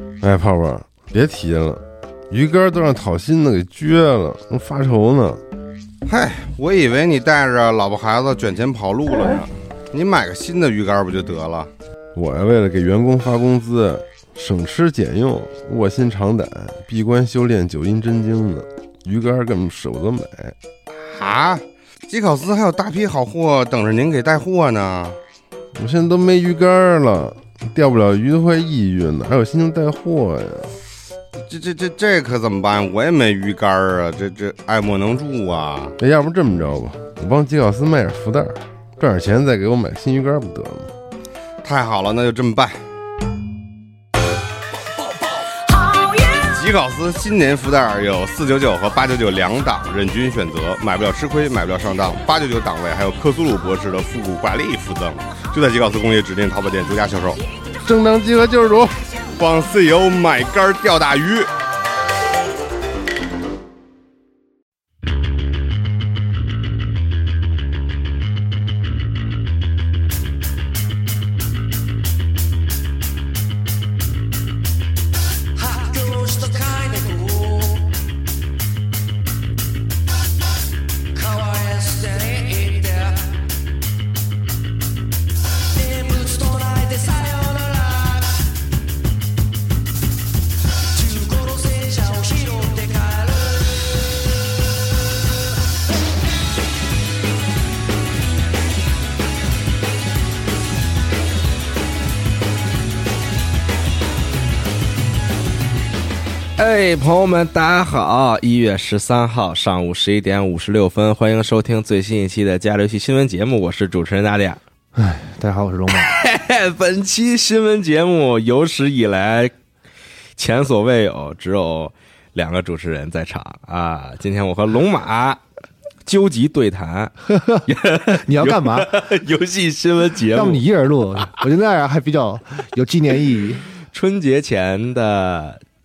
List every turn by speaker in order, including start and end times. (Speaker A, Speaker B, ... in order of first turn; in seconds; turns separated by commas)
Speaker A: 0.2-5.4, Speaker B: 6.1-11.7, Speaker A: 12.2-20.6, Speaker B: 20.9-25.2, Speaker A: 25.8-30.8, Speaker B: 31.4-36.0, Speaker A: 36.0-40.9, Speaker B: 41.6-42.8, Speaker B: 46.4-57.4, Speaker A: 57.8-59.1, Speaker B: 59.4-61.5, Speaker C: 75.7-77.8, Speaker C: 81.2-83.3, Speaker C: 85.8-88.2, Speaker C: 91.0-93.5, Speaker D: 106.6-114.6, Speaker E: 115.0-116.2, Speaker D: 115.9-119.5, Speaker D: 120.4-125.4, Speaker D: 126.1-130.6, Speaker E: 127.3-129.1, Speaker E: 130.3-133.7, Speaker D: 133.9-135.6